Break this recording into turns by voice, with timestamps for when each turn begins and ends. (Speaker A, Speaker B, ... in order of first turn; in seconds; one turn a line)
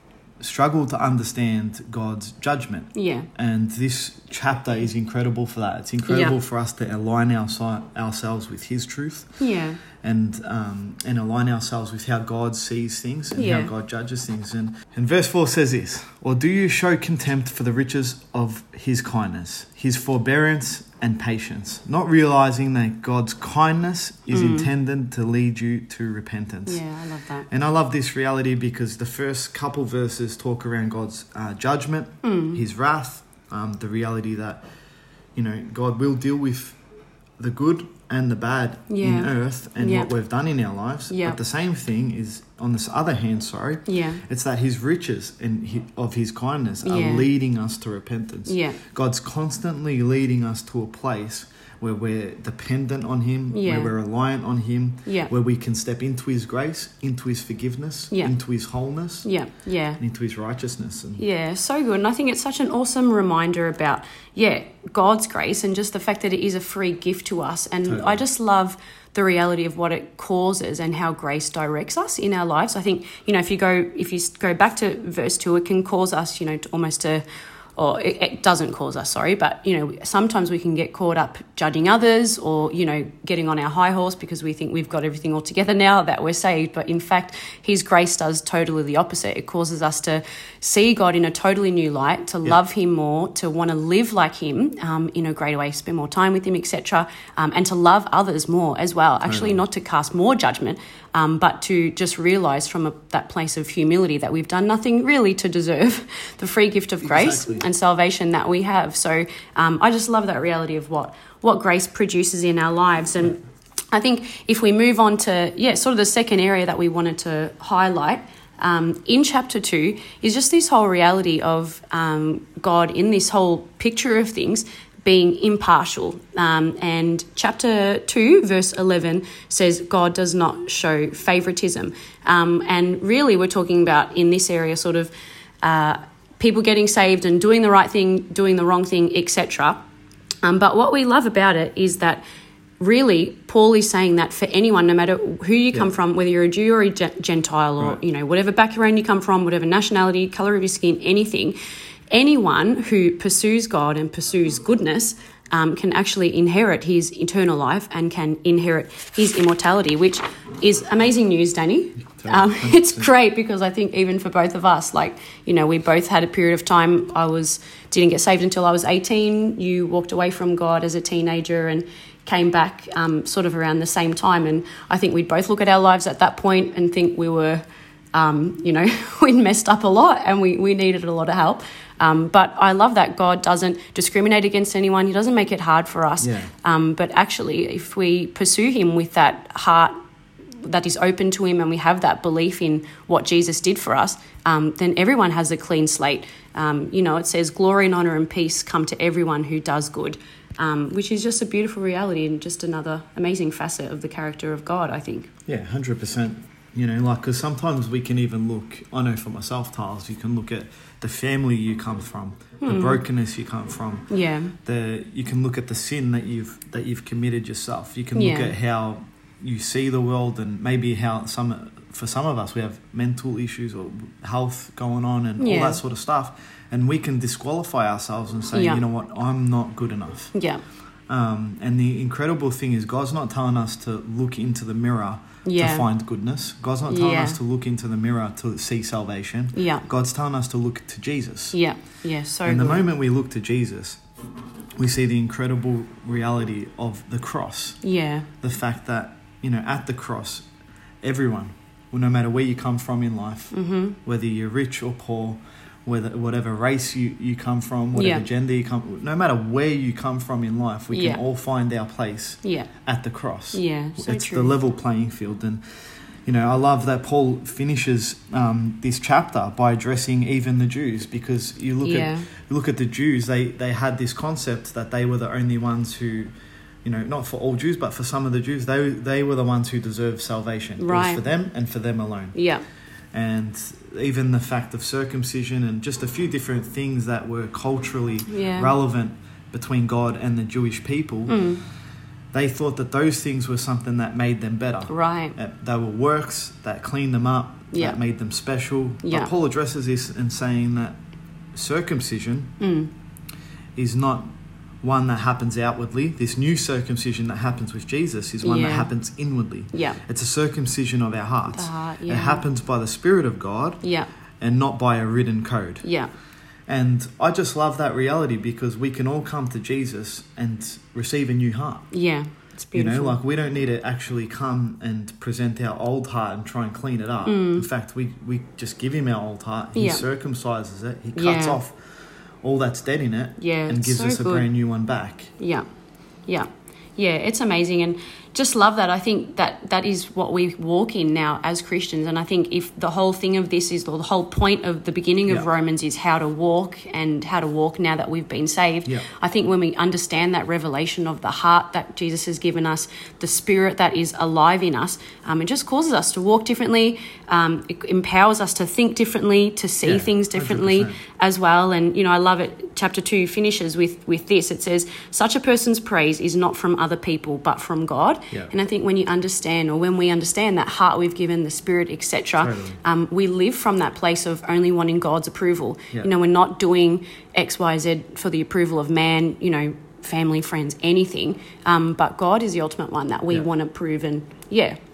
Speaker A: 0.4-9.4
Speaker B: 2.9-3.3
Speaker B: 6.1-6.4
Speaker B: 9.4-9.8
Speaker A: 10.0-26.8
Speaker B: 13.3-13.7
Speaker B: 24.3-24.7
Speaker B: 26.7-27.5
Speaker A: 27.5-34.6
Speaker B: 32.2-32.6
Speaker A: 35.4-36.8
Speaker A: 37.4-59.3
Speaker B: 38.9-40.1
Speaker B: 41.1-41.4
Speaker B: 43.9-44.2
Speaker B: 46.8-47.3
Speaker B: 48.5-48.8
Speaker B: 53.5-53.9
Speaker B: 55.0-55.3
Speaker B: 59.2-60.0
Speaker A: 60.0-61.2
Speaker B: 61.2-77.2
Speaker A: 67.8-68.2
Speaker B: 77.8-113.4
Speaker A: 99.2-99.6
Speaker A: 107.0-107.7
Speaker B: 113.9-139.9
Speaker B: 140.4-142.2
Speaker B: 142.8-151.6
Speaker B: 152.1-189.9
Speaker A: 162.2-163.1
Speaker A: 186.2-186.5
Speaker B: 190.6-205.3
Speaker A: 205.5-214.1
Speaker B: 212.6-213.0
Speaker B: 214.1-214.6
Speaker A: 214.6-230.3
Speaker B: 218.2-218.6
Speaker B: 225.4-225.8
Speaker B: 228.5-228.9
Speaker B: 230.3-230.6
Speaker A: 231.1-241.6
Speaker B: 235.4-235.9
Speaker B: 236.9-237.4
Speaker B: 239.5-239.9
Speaker B: 241.5-242.9
Speaker A: 242.4-244.0
Speaker A: 244.8-247.8
Speaker B: 247.8-248.3
Speaker A: 248.4-250.5
Speaker A: 251.0-265.6
Speaker B: 253.5-254.0
Speaker B: 257.9-258.2
Speaker B: 260.9-261.2
Speaker B: 262.4-262.7
Speaker B: 263.5-264.6
Speaker A: 266.3-276.3
Speaker B: 271.8-272.3
Speaker A: 276.8-282.4
Speaker B: 280.8-281.2
Speaker B: 282.3-282.6
Speaker A: 283.1-291.4
Speaker B: 288.3-288.8
Speaker B: 291.3-291.6
Speaker A: 292.3-301.0
Speaker B: 294.9-295.4
Speaker B: 297.7-298.0
Speaker B: 299.0-299.3
Speaker A: 301.5-302.6
Speaker B: 302.6-302.9
Speaker A: 303.8-313.8
Speaker B: 308.4-308.9
Speaker B: 309.7-310.0
Speaker B: 311.5-312.5
Speaker B: 313.8-314.1
Speaker A: 314.4-315.9
Speaker B: 315.8-316.1
Speaker A: 316.7-321.9
Speaker B: 321.9-323.2
Speaker A: 322.7-331.8
Speaker B: 327.2-327.7
Speaker B: 329.8-330.1
Speaker B: 331.1-331.6
Speaker A: 332.4-335.3
Speaker B: 333.4-334.5
Speaker B: 335.4-335.6
Speaker B: 336.3-384.8
Speaker A: 359.8-361.0
Speaker A: 372.4-372.8